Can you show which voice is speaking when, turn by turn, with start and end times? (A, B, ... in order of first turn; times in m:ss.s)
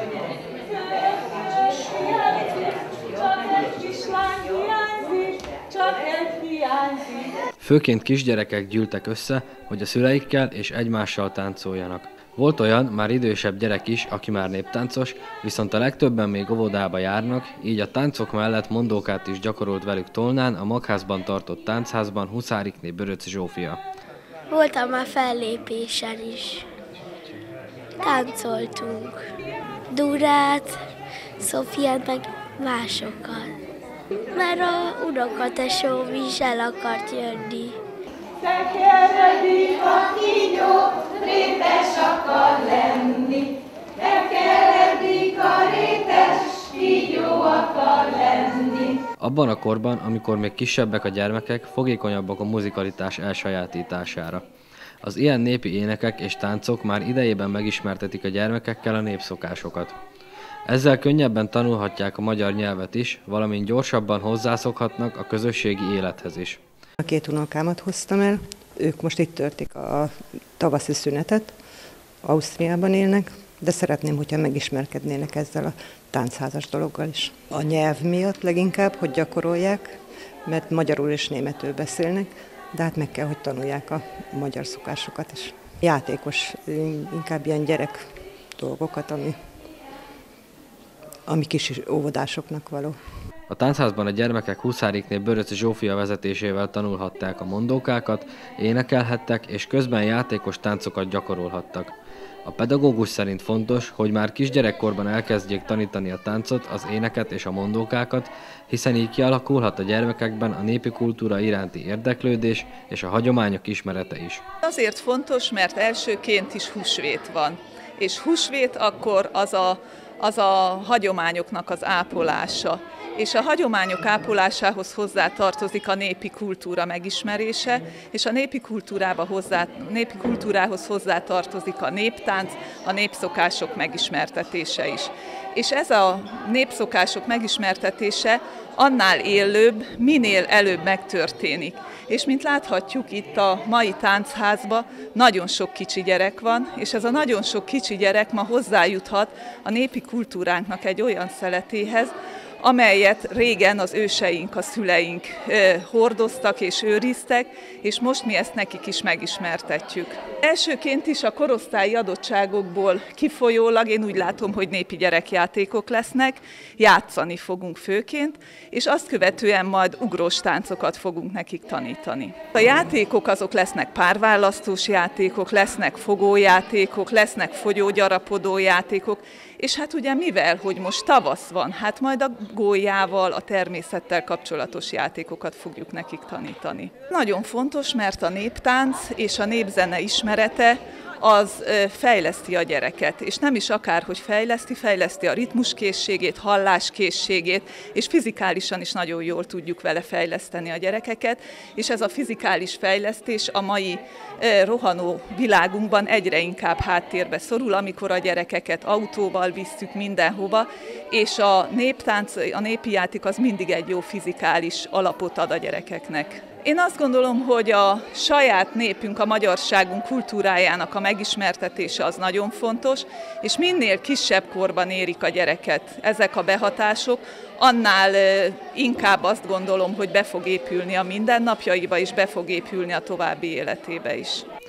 0:00.6-0:07.2 A
0:03.4-0:04.1 B
0:07.6-0:23.8 C
0:24.5-0:26.6 D
0:28.0-0:29.2 D
0:29.9-0:30.8 D
0:31.4-0:33.5 D
0:34.3-0:37.8 D
0:38.5-0:40.4 A
0:39.8-0:43.4 B
0:44.2-0:48.7 B
0:49.2-0:54.4 C
0:55.0-0:59.9 C
1:00.7-1:06.6 C
1:07.0-1:11.5 E
1:12.2-1:28.0 E
1:28.6-1:29.4 E
1:31.3-1:33.0 E
1:33.5-1:41.9 C
1:42.4-1:54.4 C
1:54.6-3:54.4 A